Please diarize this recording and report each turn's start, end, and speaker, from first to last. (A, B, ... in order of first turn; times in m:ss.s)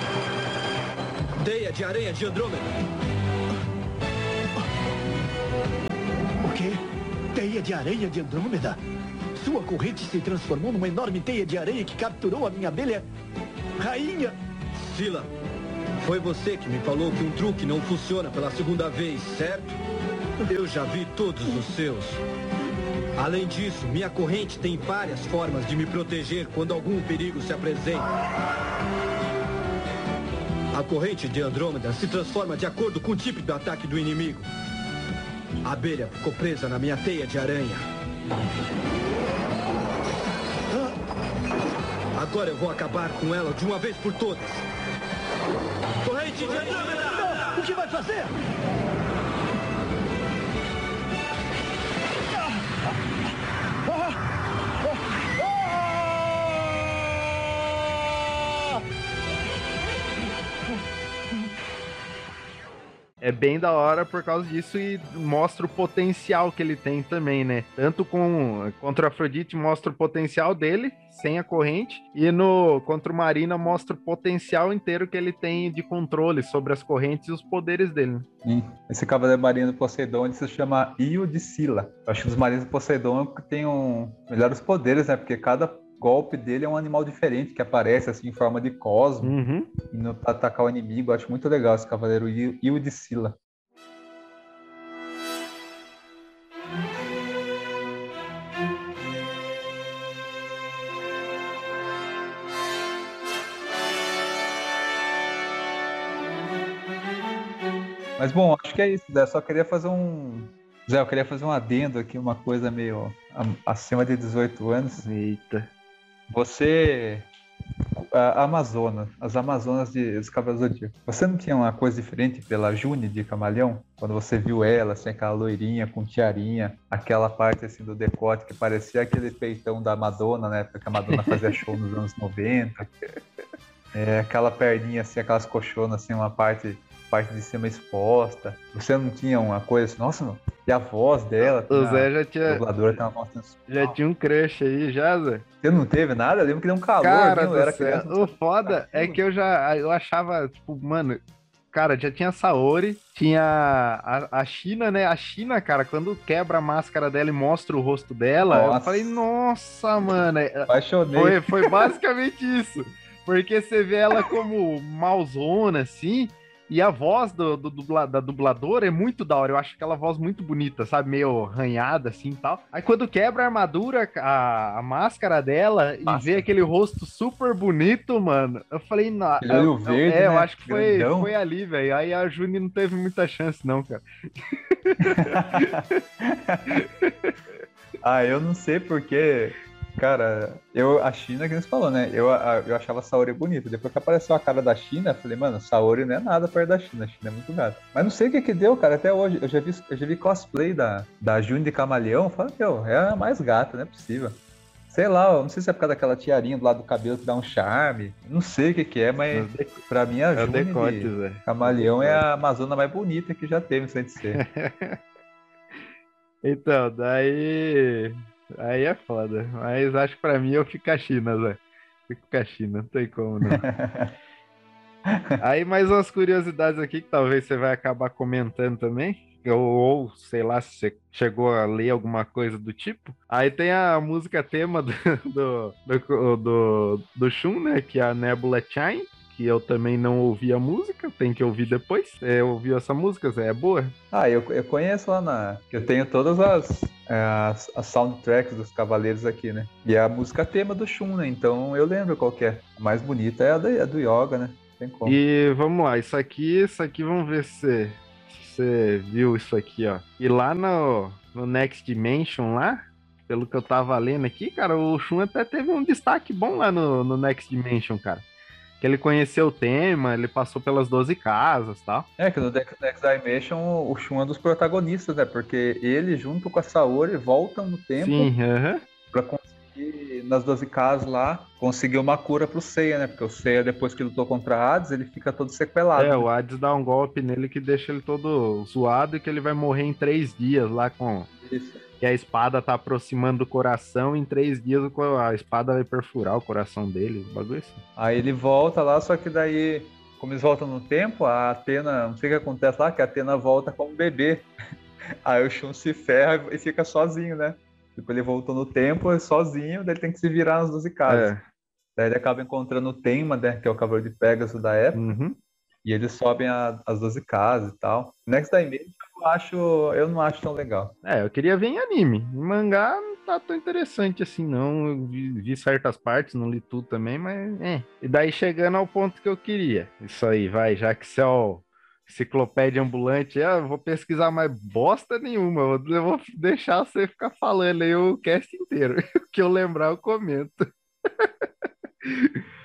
0:01.4-0:02.7 A
0:06.4-0:08.8 B
0:09.4-0:13.1 B
0:13.8-0:14.3 B
0:14.8-0:15.3 A
0:16.0-0:19.8 A
0:20.4-0:22.2 A
0:23.2-0:28.1 A
0:30.7-0:34.5 A
0:35.6-0:37.8 A
0:42.2-0:44.6 A
0:46.0-0:47.5 A
0:47.2-0:48.3 B
1:03.2-1:18.3 C
1:18.4-1:29.4 D
1:29.2-1:29.7 C
1:29.9-1:33.4 D
1:48.2-1:55.1 D
1:55.0-1:55.7 C
1:56.3-1:57.3 D
1:58.0-2:12.9 D
2:13.9-2:24.0 D
2:21.7-2:22.6 C
2:23.7-2:25.4 C
2:25.6-2:29.2 D
2:27.0-2:31.2 C
2:31.7-3:04.0 C
2:38.5-2:39.2 D
2:40.7-2:41.9 D
2:56.1-2:56.5 D
2:59.4-3:01.3 D
3:04.8-3:05.7 C
3:05.1-3:06.8 D
3:06.7-3:07.3 C
3:08.0-3:24.4 D
3:24.9-3:34.4 D
3:29.3-3:29.8 C
3:30.4-3:32.2 C
3:34.3-3:35.0 C
3:36.4-3:43.7 C
3:43.5-3:44.1 D
3:45.1-3:45.4 D
3:45.4-4:04.0 C
4:04.1-4:15.2 D
4:15.0-4:28.2 C
4:28.8-4:32.1 C
4:32.2-4:38.3 D
4:38.0-4:38.8 C
4:39.1-4:46.3 D
4:46.0-4:51.3 C
4:51.4-4:51.8 D
4:52.0-4:57.8 C
4:58.0-5:04.5 D
5:05.2-5:11.3 D
5:11.1-5:11.4 C
5:12.0-5:15.1 D
5:15.0-5:15.4 C
5:15.8-5:20.9 D
5:21.0-5:40.7 C
5:42.0-5:42.4 C